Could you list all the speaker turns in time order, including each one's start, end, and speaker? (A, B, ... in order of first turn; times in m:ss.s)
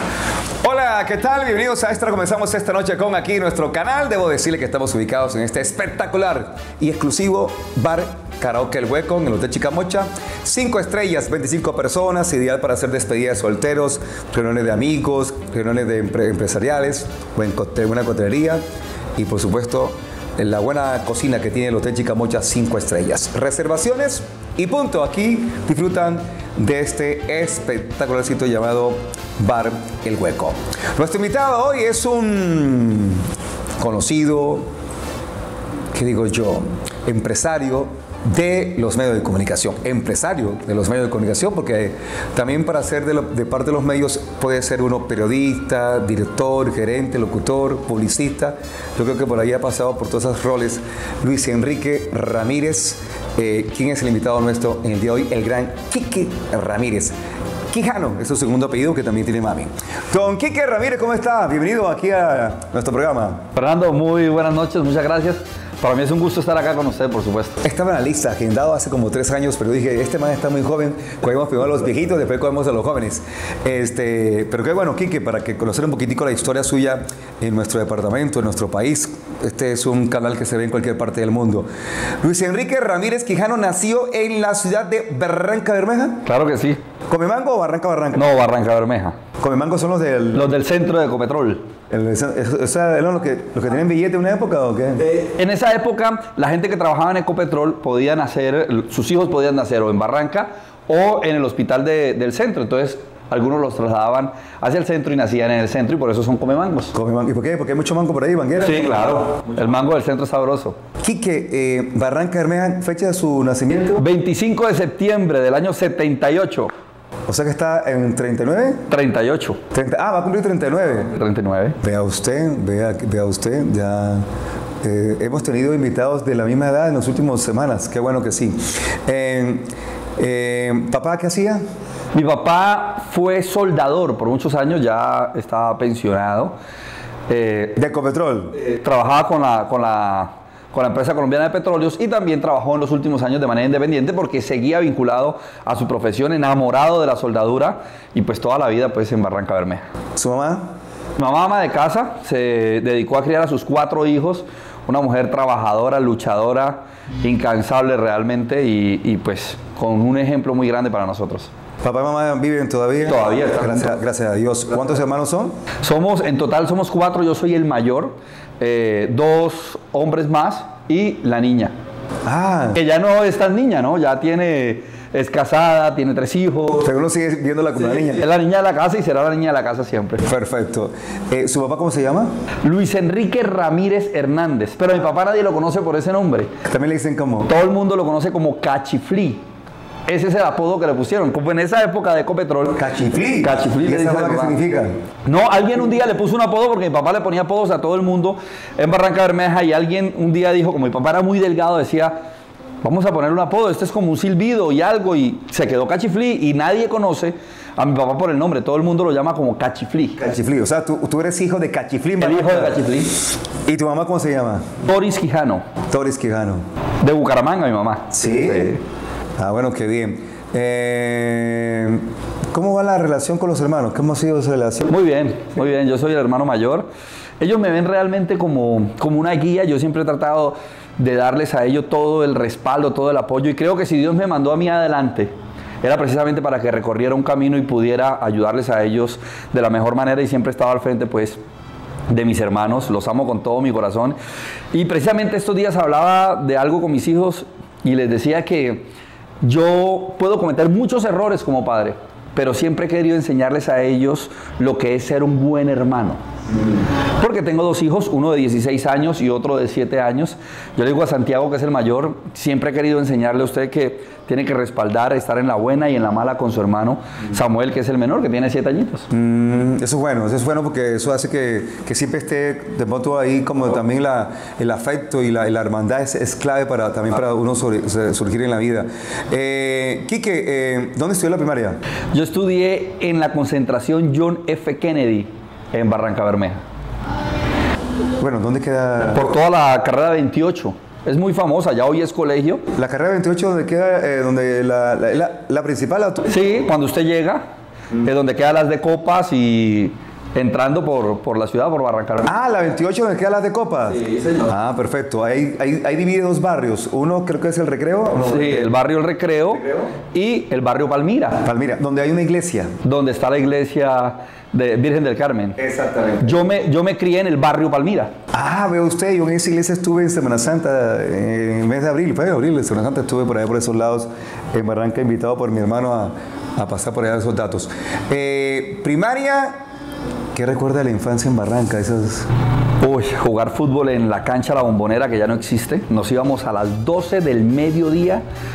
0:00.6-0:18.6 A
0:19.2-0:33.3 A
0:33.8-0:34.7 A
0:35.9-0:57.2 A
0:57.7-1:03.4 A
1:03.6-1:07.6 B
1:07.6-1:21.7 A
1:22.2-1:26.2 A
1:26.2-1:26.8 B
1:27.1-1:28.3 A
1:28.1-1:29.2 B
1:29.4-1:30.5 A
1:30.3-1:31.6 B
1:31.9-1:35.0 A
1:35.0-1:46.9 B
1:46.9-1:49.2 A
1:48.6-1:50.8 B
1:51.0-1:54.0 A
1:54.0-1:56.7 B
1:57.3-1:58.8 A
1:58.9-1:59.6 B
1:59.7-2:01.1 A
2:01.0-2:01.8 B
2:01.8-2:04.2 A
2:04.8-2:11.6 A
2:12.1-2:16.6 B
2:17.3-2:17.8 B
2:17.8-2:18.6 A
2:18.6-2:29.8 B
2:30.2-2:30.7 A
2:31.2-2:41.5 B
2:41.8-2:45.6 A
2:43.0-2:44.0 B
2:45.8-2:51.7 B
2:52.2-2:52.8 A
2:52.7-2:56.9 B
2:56.8-2:58.3 A
2:57.8-3:00.2 B
3:00.2-3:02.3 A
3:02.6-3:06.5 B
3:06.6-3:07.5 A
3:07.5-3:09.4 B
3:10.1-3:14.6 B
3:12.8-3:14.9 A
3:15.3-3:22.2 B
3:22.8-3:30.2 B
3:30.2-3:32.9 A
3:32.2-3:33.2 B
3:33.7-3:34.7 A
3:34.8-3:35.7 B
3:35.9-3:36.6 A
3:37.0-3:38.8 B
3:38.1-3:38.8 A
3:39.4-3:44.9 A
3:44.9-3:46.9 B
3:47.4-4:01.4 B
4:02.1-4:04.2 B
4:04.7-4:08.9 B
4:09.4-4:16.2 B
4:17.2-4:29.1 B
4:29.1-4:41.8 A
4:42.1-4:46.6 B
4:48.2-4:49.3 A
4:49.1-4:52.6 B
4:52.8-4:56.3 A
4:56.3-4:57.4 B
4:58.0-5:02.4 B
5:02.2-5:08.7 A
5:03.9-5:04.5 B
5:08.2-5:11.4 B
5:09.5-5:09.9 A
5:11.4-5:12.7 A
5:12.8-5:15.6 B
5:15.6-5:16.4 A
5:16.2-5:18.1 B
5:18.3-5:29.6 A
5:30.3-5:32.3 A
5:32.8-5:38.2 B